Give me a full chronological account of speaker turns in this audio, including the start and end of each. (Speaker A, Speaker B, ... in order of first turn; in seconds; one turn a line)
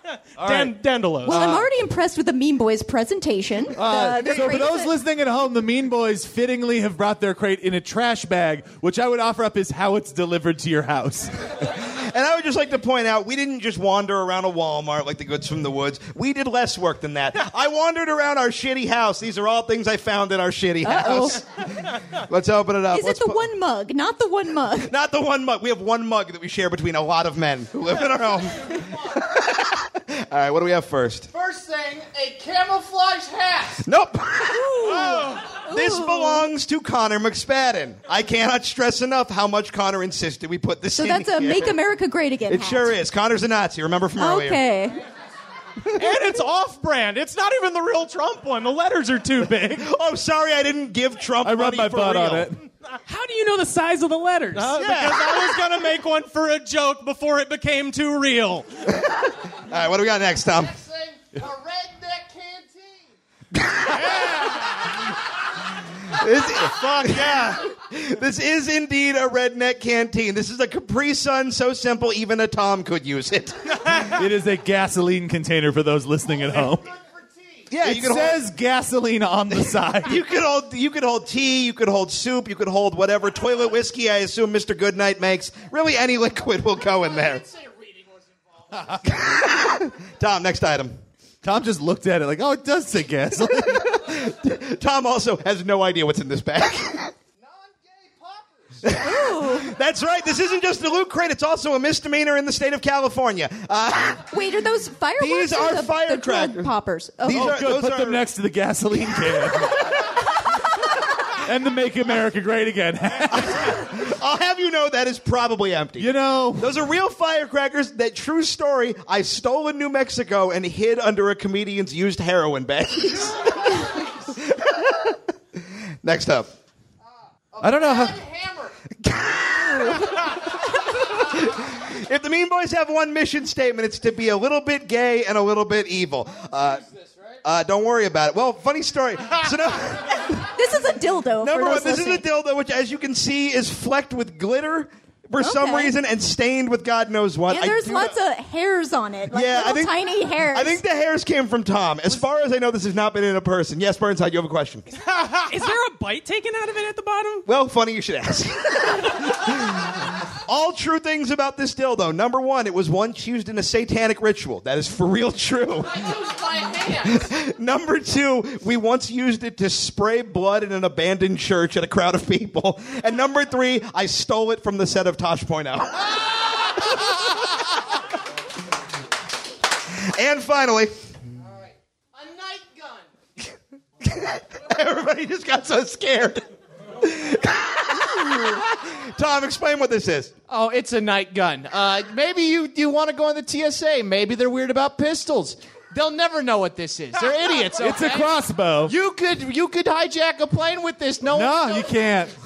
Speaker A: 0.4-1.7
Speaker B: 0.4-1.4
Speaker C: 1.2-4.9
Speaker A: 3.7-11.4
Speaker D: 11.8-23.5
Speaker C: 20.8-21.4
Speaker C: 22.9-24.9
Speaker D: 24.8-31.3
Speaker E: 31.3-33.8
Speaker D: 33.8-41.8
Speaker C: 34.5-36.5
Speaker C: 40.9-42.9
Speaker D: 42.5-44.6
Speaker C: 44.2-45.0
Speaker B: 45.9-49.9
Speaker D: 49.8-52.5
Speaker A: 51.4-52.6
Speaker F: 53.0-54.9
Speaker B: 54.5-58.7
Speaker D: 59.5-60.8
Speaker E: 60.8-62.9
Speaker D: 63.6-64.2
Speaker B: 64.2-64.6
Speaker D: 66.1-73.9
Speaker B: 66.6-67.6
Speaker A: 74.0-76.9
Speaker D: 77.7-78.4
Speaker A: 77.8-80.2
Speaker D: 80.0-87.5
Speaker D: 89.0-91.0
Speaker A: 91.4-93.9
Speaker D: 93.8-97.1
Speaker D: 98.8-104.3
Speaker C: 99.0-99.7
Speaker C: 104.3-107.6
Speaker D: 105.2-106.7
Speaker D: 107.2-108.2
Speaker A: 107.3-109.9
Speaker A: 111.4-113.8
Speaker D: 113.4-125.1
Speaker A: 116.0-116.7
Speaker D: 126.0-126.5
Speaker E: 127.5-128.7
Speaker A: 127.6-128.2
Speaker D: 129.0-130.1
Speaker D: 131.1-136.9
Speaker D: 137.4-140.5
Speaker C: 140.5-142.2
Speaker D: 141.4-148.2
Speaker C: 145.4-145.9
Speaker C: 147.5-150.8
Speaker D: 149.3-154.9
Speaker F: 155.5-157.4
Speaker D: 157.4-166.1
Speaker E: 165.9-167.2
Speaker D: 167.0-176.2
Speaker D: 180.1-180.9
Speaker E: 182.2-182.9
Speaker E: 184.7-186.4
Speaker D: 187.0-190.3
Speaker E: 190.5-198.3
Speaker A: 197.8-198.9
Speaker E: 198.8-201.9
Speaker A: 201.3-202.3